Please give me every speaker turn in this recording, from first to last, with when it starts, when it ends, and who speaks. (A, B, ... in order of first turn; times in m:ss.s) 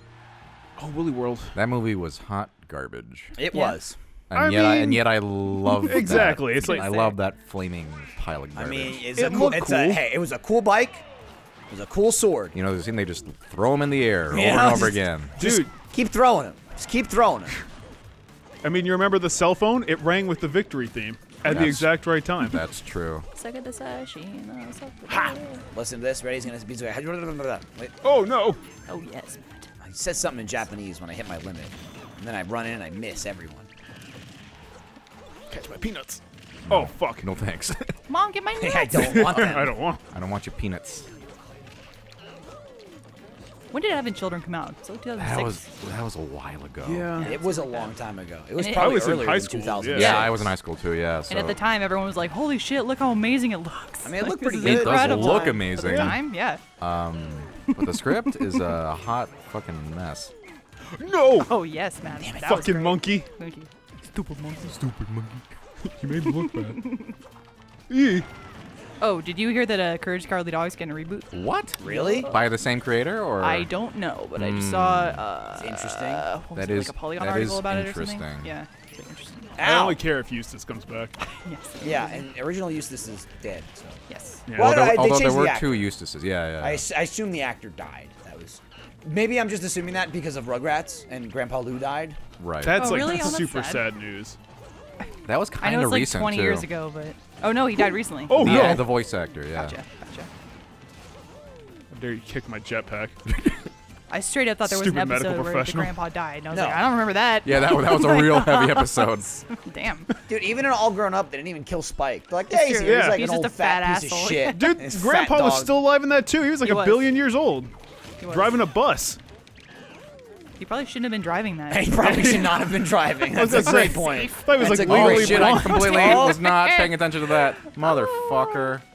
0:00.8-0:01.6 A
0:01.5-0:03.3 B
0:03.3-0:04.0 C
0:03.5-0:03.8 D
0:04.3-0:09.3 B
0:04.3-0:05.1 A
0:05.8-0:06.9 A
0:06.4-0:07.2 D
0:08.5-0:11.0 C
0:09.1-0:10.0 A
0:11.7-0:12.6 C
0:12.5-0:15.4 B
0:14.3-0:17.6 C
0:15.4-0:15.7 A
0:18.6-0:22.6 A
0:21.4-0:23.3 B
0:23.3-0:25.6 D
0:25.7-0:28.0 C
0:28.0-0:28.6 A
0:28.9-0:29.7 D
0:29.8-0:33.7 C
0:35.5-0:37.3 A
0:36.7-0:37.9 B
0:38.1-0:39.5 D
0:38.6-0:39.8 C
0:38.9-0:40.0 A
0:40.1-0:41.1 B
0:43.7-0:45.6 D
0:45.2-0:47.1 B
0:46.8-0:47.3 A
0:47.2-0:47.9 D
0:47.2-0:50.5 C
0:48.5-0:49.1 D
0:48.7-0:50.3 A
0:49.9-0:51.6 B
0:51.3-0:56.6 D
0:54.0-0:55.7 C
0:54.6-0:56.2 B
0:55.8-0:56.2 A
0:56.8-1:00.3 B
0:57.8-0:58.6 D
1:00.9-1:01.5 A
1:01.4-1:03.7 D
1:02.2-1:02.7 C
1:02.4-1:03.3 A
1:04.1-1:05.5 B
1:05.9-1:06.9 A
1:06.5-1:07.1 D
1:07.9-1:08.3 A
1:09.0-1:12.5 D
1:11.3-1:13.7 B
1:11.8-1:12.3 C
1:13.4-1:19.5 D
1:14.4-1:15.2 B
1:15.6-1:16.3 C
1:16.5-1:18.5 B
1:19.6-1:20.0 C
1:19.6-1:21.1 A
1:21.2-1:22.2 D
1:21.8-1:24.0 C
1:24.1-1:24.4 D
1:24.5-1:24.8 A
1:24.5-1:25.9 C
1:24.5-1:26.8 B
1:26.6-1:32.2 C
1:32.4-1:33.2 B
1:32.6-1:34.4 A
1:32.7-1:33.8 D
1:35.3-1:36.7 B
1:35.6-1:38.9 D
1:38.3-1:38.9 A
1:38.3-1:39.8 B
1:39.5-1:40.3 D
1:41.9-1:43.2 A
1:44.1-1:50.1 D
1:44.6-1:45.9 A
1:46.5-1:46.8 C
1:47.4-1:49.3 B
1:50.3-1:55.7 C
1:52.5-1:54.8 D
1:52.8-1:53.2 A
1:54.5-1:59.2 A
1:56.6-1:57.1 D
1:58.2-1:58.6 D
2:00.6-2:02.2 D
2:01.7-2:06.4 C
2:02.0-2:06.0 A
2:04.8-2:08.8 B
2:05.6-2:08.5 D